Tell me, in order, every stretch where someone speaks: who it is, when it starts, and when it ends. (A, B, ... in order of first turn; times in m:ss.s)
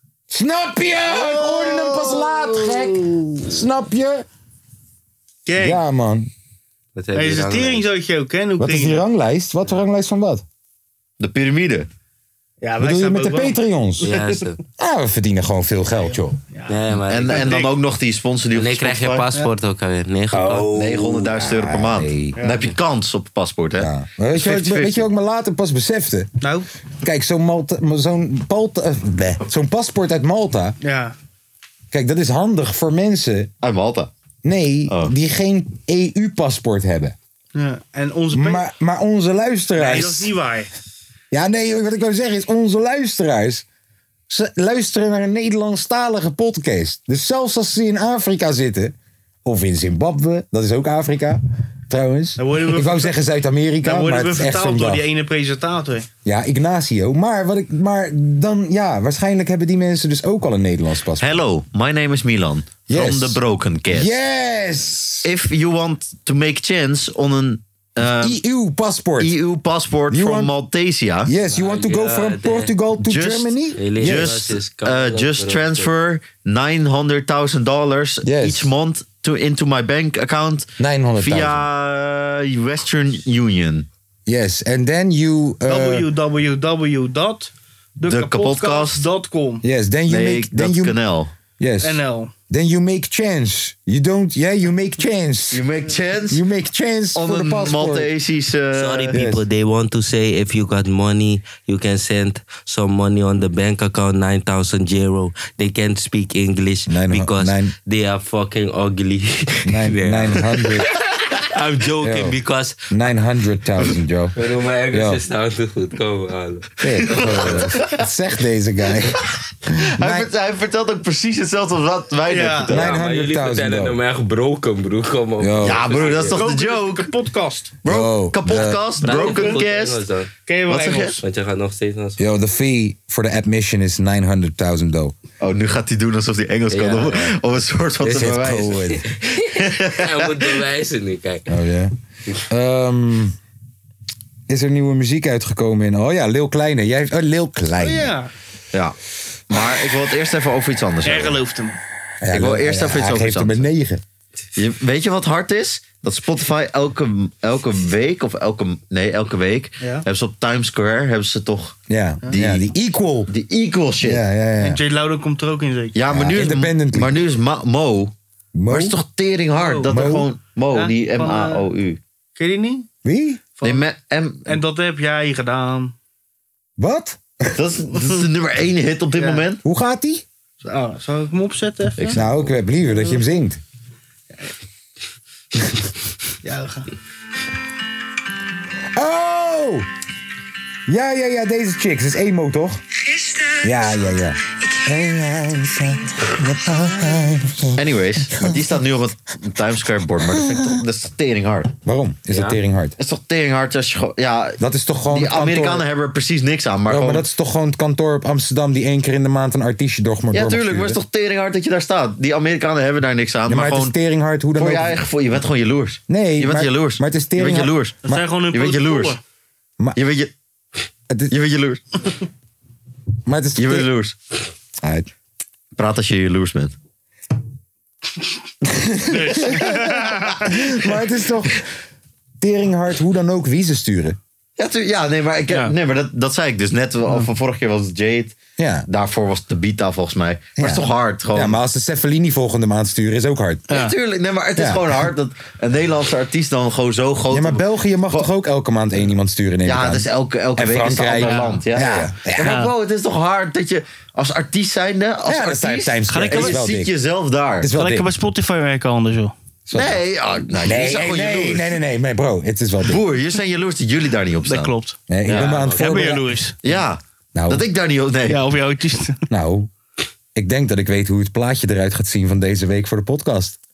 0:00.3-0:04.2 A
0:01.6-0:02.1 B
0:05.4-0:05.8 B
0:05.6-0:06.3 A
0:06.9-0:07.9 C
0:07.1-0:09.0 B
0:08.6-0:10.4 A
0:11.2-0:11.9 D
0:12.6-0:14.4 B
0:12.8-0:14.2 A
0:14.0-0:14.6 C
0:14.8-0:16.4 A
0:16.0-0:17.7 B
0:16.7-0:17.6 C
0:17.1-0:19.3 D
0:18.5-0:20.7 C
0:20.3-0:22.4 A
0:20.7-0:23.9 D
0:23.8-0:26.3 A
0:24.3-0:24.9 B
0:26.4-0:26.7 B
0:27.0-0:30.8 A
0:30.8-0:31.2 B
0:31.9-0:33.5 A
0:33.6-0:34.1 D
0:34.4-0:37.2 A
0:34.9-0:35.1 D
0:37.5-0:38.6 B
0:38.3-0:40.3 A
0:39.8-0:40.7 B
0:41.3-0:43.6 A
0:44.3-0:55.0 A
0:52.4-0:53.1 B
0:53.8-0:56.1 B
0:56.2-1:01.4 A
1:01.2-1:04.2 D
1:02.9-1:05.3 A
1:05.2-1:08.4 D
1:08.0-1:09.3 A
1:09.2-1:11.3 D
1:10.1-1:10.5 A
1:11.2-1:14.3 A
1:11.5-1:12.7 C
1:13.0-1:23.9 D
1:13.8-1:15.9 C
1:18.2-1:18.7 A
1:20.8-1:21.6 A
1:24.2-1:26.1 A
1:25.6-1:29.6 B
1:28.0-1:29.0 D
1:29.6-1:31.0 A
1:30.1-1:31.3 D
1:31.6-1:35.6 A
1:31.8-1:32.3 B
1:35.5-1:36.4 D
1:36.3-1:38.1 A
1:37.1-1:39.2 D
1:38.7-1:52.9 C
1:39.1-1:39.4 A
1:46.9-1:47.7 A
1:49.6-1:50.9 A
1:52.0-1:52.4 A
1:52.9-1:54.4 A
1:54.4-1:57.7 C
1:54.9-1:55.2 A
1:56.8-2:00.3 A
2:00.0-2:02.9 D
2:02.3-2:02.7 B
2:02.7-2:04.0 A
2:02.7-2:06.4 C
2:05.4-2:06.0 A
2:05.6-2:07.1 D
2:06.3-2:07.7 B
2:07.8-2:10.0 D
2:07.8-2:08.9 A
2:09.0-2:10.3 C
2:09.0-2:09.6 B
2:10.5-2:11.2 B
2:10.7-2:11.2 D
2:11.2-2:12.2 C
2:12.2-2:15.1 A
2:15.4-2:20.6 D
2:16.7-2:17.4 C
2:18.0-2:19.0 A
2:19.0-2:21.4 C
2:21.5-2:21.9 A
2:22.5-2:23.4 A
2:24.5-2:28.1 A
2:27.8-2:28.3 B
2:29.5-2:31.4 D
2:31.0-2:31.8 B
2:32.2-2:34.0 A
2:32.3-2:33.7 D
2:34.5-2:42.7 D
2:39.8-2:40.0 B
2:41.9-2:43.3 A
2:43.3-2:44.2 D
2:44.0-2:44.8 A
2:44.6-2:46.0 B
2:45.9-2:48.1 D
2:46.1-2:47.2 A
2:48.5-2:48.9 A
2:48.7-2:52.0 D
2:49.5-2:50.1 B
2:49.8-2:50.3 A
2:50.7-2:51.7 B
2:52.4-2:52.9 B
2:53.0-2:53.4 A
2:53.6-2:54.6 D
2:54.4-2:55.9 B
2:56.8-2:57.6 A
2:57.5-2:59.6 D
2:59.2-2:59.4 B
2:59.6-3:00.2 A
3:00.6-3:02.2 B
3:02.0-3:02.5 D
3:02.1-3:03.6 A
3:06.4-3:06.9 B
3:08.9-3:09.9 A
3:10.9-3:12.8 A
3:13.6-3:18.6 A
3:17.8-3:21.7 D
3:20.2-3:20.7 A
3:21.8-3:23.0 A
3:22.3-3:22.6 C
3:23.0-3:27.2 D
3:24.6-3:25.8 A
3:26.9-3:31.0 A
3:30.3-3:33.9 D
3:33.5-3:35.0 A
3:34.6-3:39.2 D
3:36.1-3:38.3 A
3:38.0-3:39.2 B
3:39.9-3:40.3 D
3:41.3-3:41.8 D
3:43.2-3:43.9 A
3:43.6-3:44.2 D
3:44.8-3:45.1 A
3:45.8-3:46.7 D
3:48.6-3:51.7 A
3:49.1-3:50.7 B
3:52.4-3:54.2 A
3:54.6-3:58.4 D
3:55.5-3:55.7 B
3:58.6-3:58.9 A
3:58.9-4:01.6 D
4:00.6-4:03.7 A
4:03.7-4:04.0 B
4:03.7-4:08.3 D
4:04.6-4:04.8 A
4:07.3-4:12.6 A
4:09.6-4:17.7 D
4:11.2-4:11.6 B
4:12.4-4:12.7 B
4:15.2-4:16.9 A
4:16.1-4:16.6 B
4:17.6-4:18.1 A
4:17.7-4:19.3 B
4:19.6-4:20.0 A
4:19.7-4:21.7 D
4:20.6-4:23.0 A
4:22.8-4:24.7 D
4:24.4-4:25.0 B
4:25.1-4:26.3 A
4:25.2-4:25.6 D
4:25.3-4:26.1 C
4:25.8-4:26.6 B
4:26.6-4:28.4 D
4:27.3-4:27.6 A
4:28.3-4:29.2 B
4:29.3-4:29.7 A
4:30.3-4:33.6 A